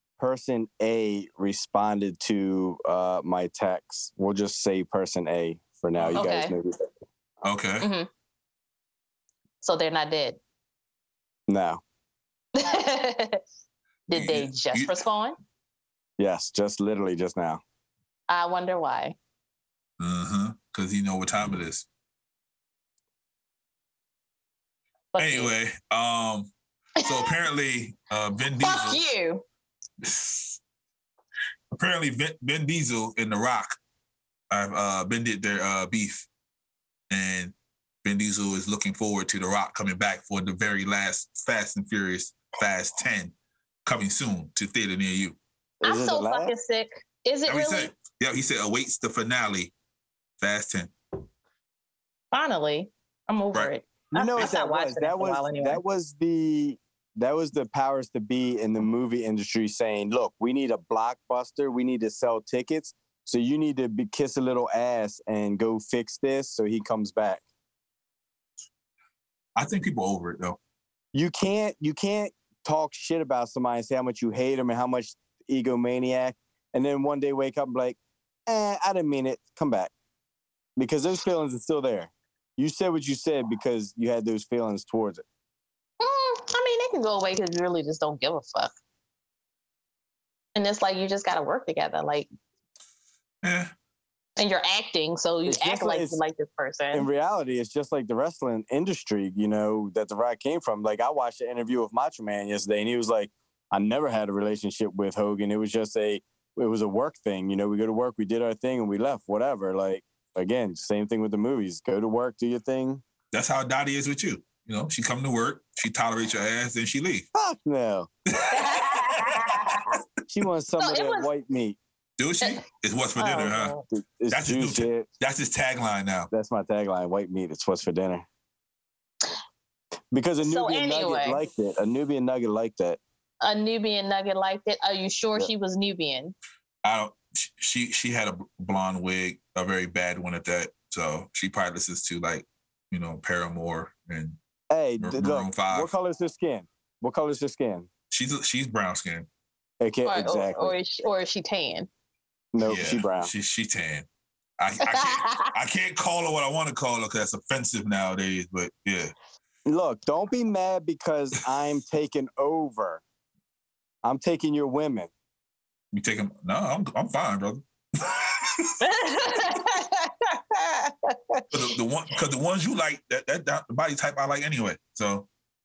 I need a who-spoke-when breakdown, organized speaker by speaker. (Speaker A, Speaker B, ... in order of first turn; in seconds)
Speaker A: 0.2-6.8, 11.5-11.8, 16.2-17.6, 45.8-46.5, 54.1-67.4, 71.1-79.9, 80.8-85.2, 95.5-96.2, 96.9-113.0, 117.3-118.1, 120.3-121.8, 123.9-125.1, 126.3-128.3, 130.1-133.0, 144.7-147.9, 149.8-150.8, 152.5-153.3, 159.7-163.0, 164.0-165.1
Speaker B: 6.0-6.3, 7.4-7.9, 14.1-15.0, 20.0-21.9, 25.2-29.0, 30.0-30.6, 31.7-33.8, 34.5-36.3, 37.1-43.3, 43.9-45.4, 47.5-49.7, 50.4-50.9, 69.6-70.6, 93.4-93.7, 113.3-117.3, 118.3-120.0, 122.2-123.8, 124.3-126.3, 136.8-144.4, 145.0-145.9, 148.1-149.3, 152.6-154.1, 154.6-159.1, 165.9-168.8, 171.5-175.3
Speaker C: 6.1-6.5, 7.8-8.1, 9.6-10.4, 12.6-13.4, 14.1-15.4, 18.3-19.1, 25.1-25.5, 27.0-27.4, 28.6-29.4, 45.8-47.9, 52.3-55.8, 86.0-88.7, 90.5-92.3, 94.4-97.1, 118.5-119.9, 120.8-121.3, 123.2-123.8, 130.4-131.4, 133.4-136.3, 150.1-151.9, 154.8-155.5, 168.8-171.4